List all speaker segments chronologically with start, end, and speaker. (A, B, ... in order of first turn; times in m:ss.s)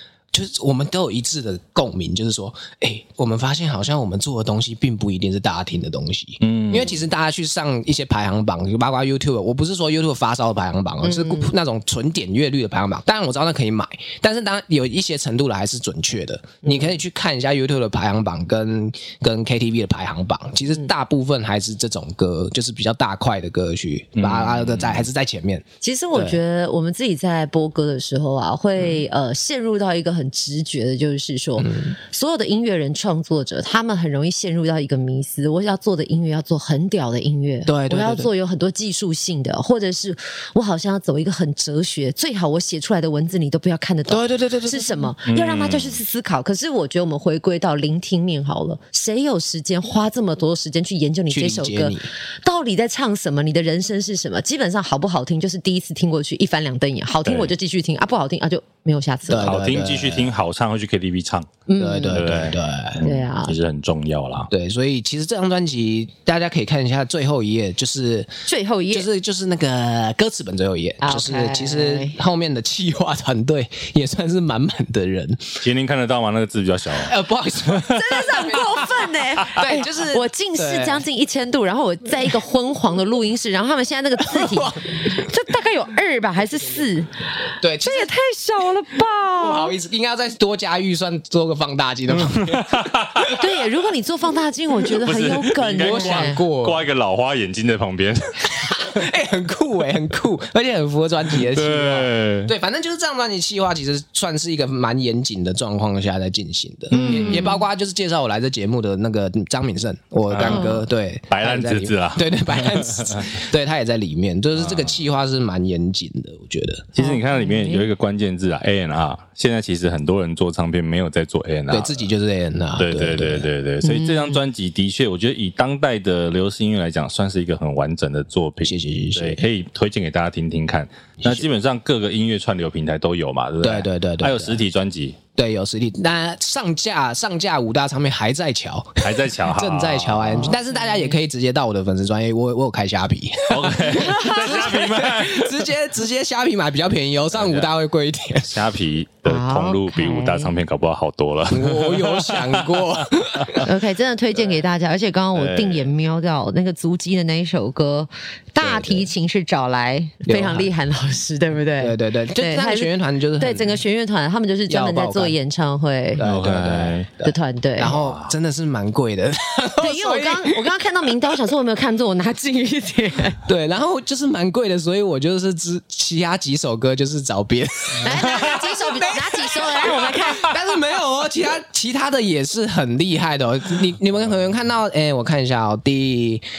0:00.3-0:26.4 A
0:06.4-0:06.9 B
0:11.0-0:11.5 C
0:16.6-0:16.9 C
0:24.2-0:25.1 B
0:25.8-0:59.5 C
0:31.6-0:32.0 A
0:37.7-0:38.3 A
0:44.1-0:45.1 A
0:45.2-0:46.0 B
0:51.3-0:52.1 A
0:57.2-0:57.5 B
0:59.3-1:00.3 A
0:59.4-1:01.5 B
1:01.7-1:02.4 C
1:01.8-1:03.0 A
1:02.1-1:04.5 B
1:03.0-1:03.5 C
1:04.5-1:08.3 A
1:08.5-1:09.1 C
1:08.9-1:15.6 A
1:11.0-1:12.2 C
1:15.6-1:18.0 B
1:17.0-1:19.0 A
1:17.9-1:29.7 C
1:19.5-1:21.0 A
1:24.2-1:25.2 A
1:27.6-1:28.1 A
1:29.4-1:33.4 A
1:32.1-1:33.3 B
1:33.3-1:36.4 C
1:34.9-1:39.1 B
1:35.8-1:36.8 A
1:38.5-1:56.9 A
1:41.3-1:42.5 B
1:46.9-1:47.5 B
1:46.9-1:47.6 C
1:50.3-1:50.8 B
1:50.4-1:50.8 C
1:51.3-1:53.4 B
1:54.5-1:55.0 B
1:56.9-2:02.1 B
1:57.0-1:57.9 C
2:01.7-2:03.5 A
2:02.8-2:15.2 B
2:03.8-2:04.4 C
2:08.6-2:09.4 A
2:11.2-2:11.5 A
2:13.6-2:14.6 A
2:15.4-2:28.6 A
2:19.0-2:20.6 B
2:20.3-2:21.1 C
2:23.5-2:25.6 B
2:24.0-2:24.5 C
2:27.3-2:27.7 B
2:28.4-2:33.7 B
2:29.2-2:30.5 C
2:31.5-2:33.7 A
2:33.6-2:46.2 C
2:35.3-2:35.9 B
2:38.6-2:39.1 A
2:40.2-2:40.7 A
2:41.8-2:43.8 A
2:44.7-2:45.3 A
2:46.2-2:50.6 A
2:46.2-2:47.1 B
2:47.2-2:48.0 C
2:47.9-2:48.3 B
2:49.8-2:53.4 C
2:53.4-3:06.4 A
2:58.0-3:00.6 C